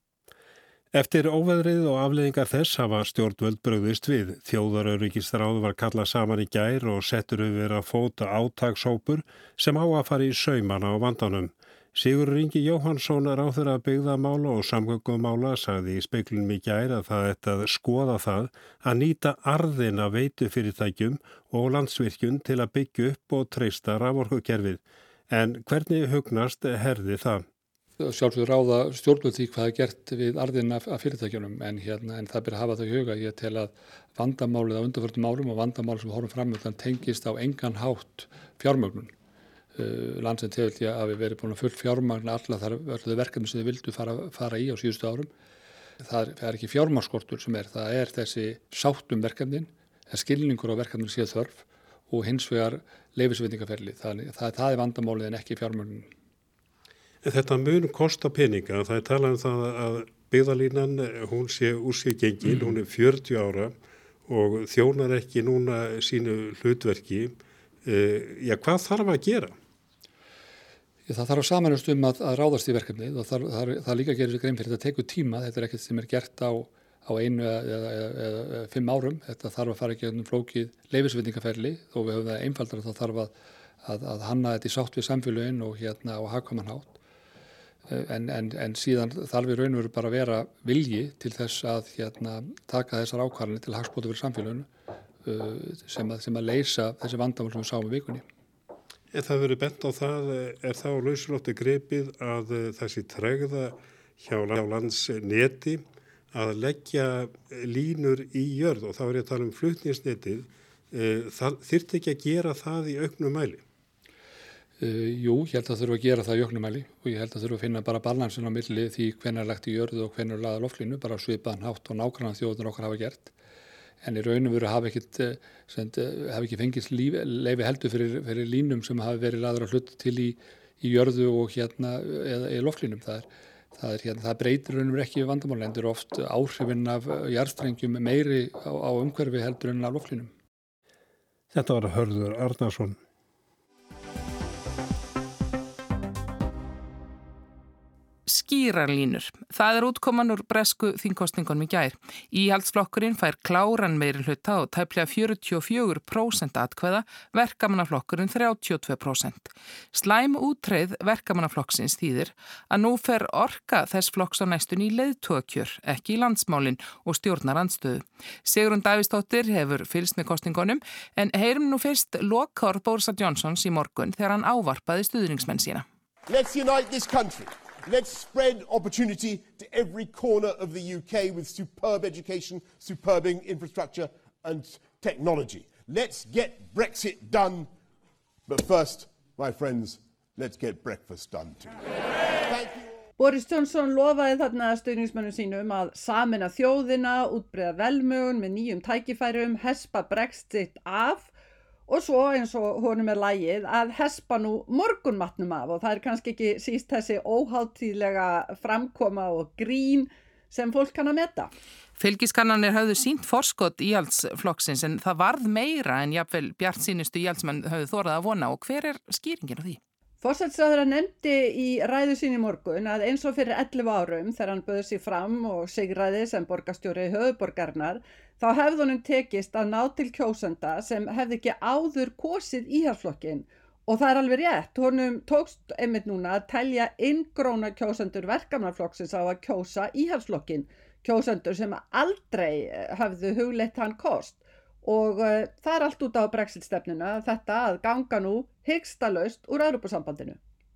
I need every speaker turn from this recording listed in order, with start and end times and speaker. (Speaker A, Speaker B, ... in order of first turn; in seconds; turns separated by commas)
Speaker A: 0.9-27.4, Speaker B: 28.0-39.1, Speaker B: 39.8-45.3, Speaker B: 46.0-56.1, Speaker A: 57.2-63.7, Speaker A: 64.2-69.5, Speaker B: 71.1-83.3, Speaker B: 83.8-87.0, Speaker B: 87.9-94.7, Speaker B: 95.2-98.2, Speaker A: 99.1-113.6, Speaker B: 114.8-123.3, Speaker B: 124.0-140.3, Speaker A: 141.5-143.0, Speaker C: 148.3-175.8, Speaker D: 176.3-187.7, Speaker D: 188.5-192.9, Speaker E: 193.2-201.3, Speaker E: 201.9-211.5, Speaker C: 212.0-219.8, Speaker E: 220.2-250.4